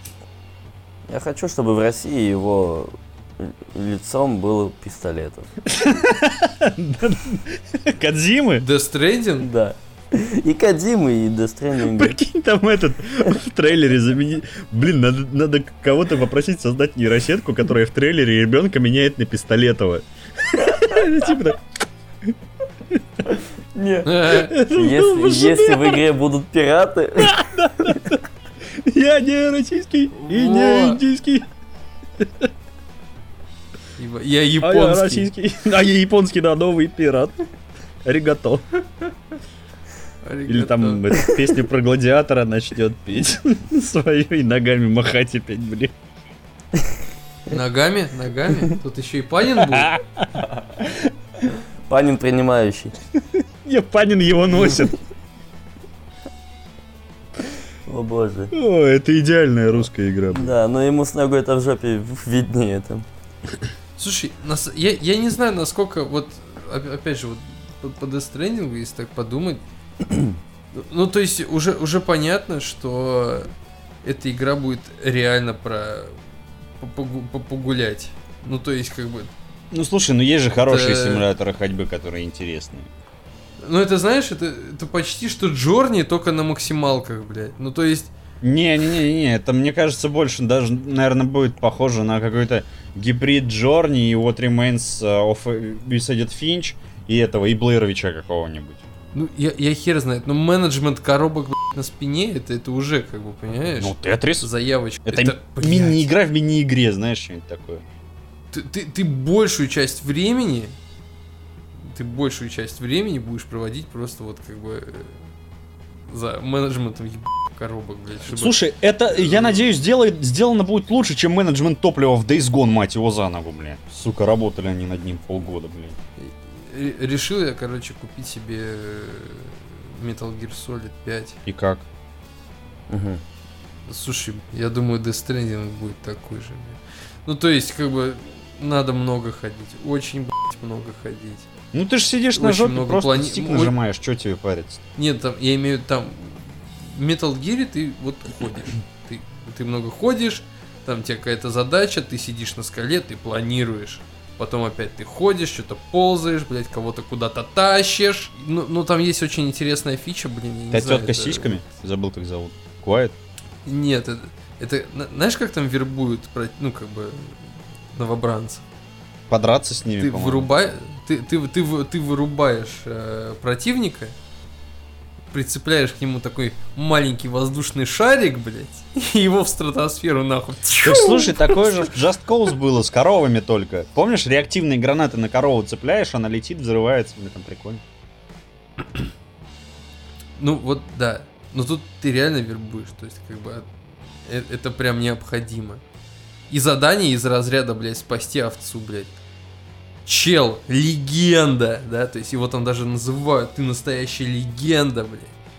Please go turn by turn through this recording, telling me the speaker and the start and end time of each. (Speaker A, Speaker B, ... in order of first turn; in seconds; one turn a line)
Speaker A: 1.1-5.5
Speaker B: 5.7-8.7
Speaker C: 8.6-9.5
Speaker A: 9.4-12.2
Speaker B: 11.8-21.6
Speaker A: 23.7-27.9
Speaker C: 24.0-24.5
Speaker B: 24.3-26.0
Speaker B: 27.2-28.2
Speaker B: 28.8-31.5
Speaker C: 30.2-31.0
Speaker B: 32.2-32.5
Speaker C: 34.0-35.3
Speaker B: 34.6-37.4
Speaker B: 38.0-38.6
Speaker C: 40.2-41.0
Speaker B: 40.5-45.9
Speaker C: 47.5-49.9
Speaker B: 49.6-51.0
Speaker A: 51.9-53.0
Speaker B: 53.6-55.0
Speaker A: 57.9-58.5
Speaker B: 58.5-60.5
Speaker A: 60.3-63.1
Speaker C: 64.0-69.6
Speaker C: 70.7-73.5
Speaker C: 74.0-76.2
Speaker C: 76.8-79.3
Speaker B: 79.7-82.9
Speaker C: 80.7-81.2
Speaker C: 83.6-88.1
Speaker B: 88.4-98.8
Speaker C: 99.1-106.1
Speaker B: 103.8-104.5
Speaker B: 105.0-107.8
Speaker C: 108.5-110.8
Speaker C: 111.8-115.3
Speaker C: 116.1-118.6
Speaker B: 118.3-126.0
Speaker C: 119.1-119.7
Speaker C: 126.2-131.4
Speaker B: 131.4-131.8
Speaker A: 132.9-133.2
Speaker C: 133.9-141.5
Speaker B: 141.7-144.8
Speaker C: 142.3-143.7
Speaker C: 144.9-161.6
Speaker B: 160.7-163.1
Speaker C: 163.6-168.6
Speaker B: 169.3-170.5
Speaker C: 170.0-174.1
Speaker C: 175.3-181.9
Speaker B: 180.8-187.8
Speaker C: 190.4-193.7
Speaker C: 194.2-195.8
Speaker C: 196.5-199.1
Speaker C: 200.1-205.3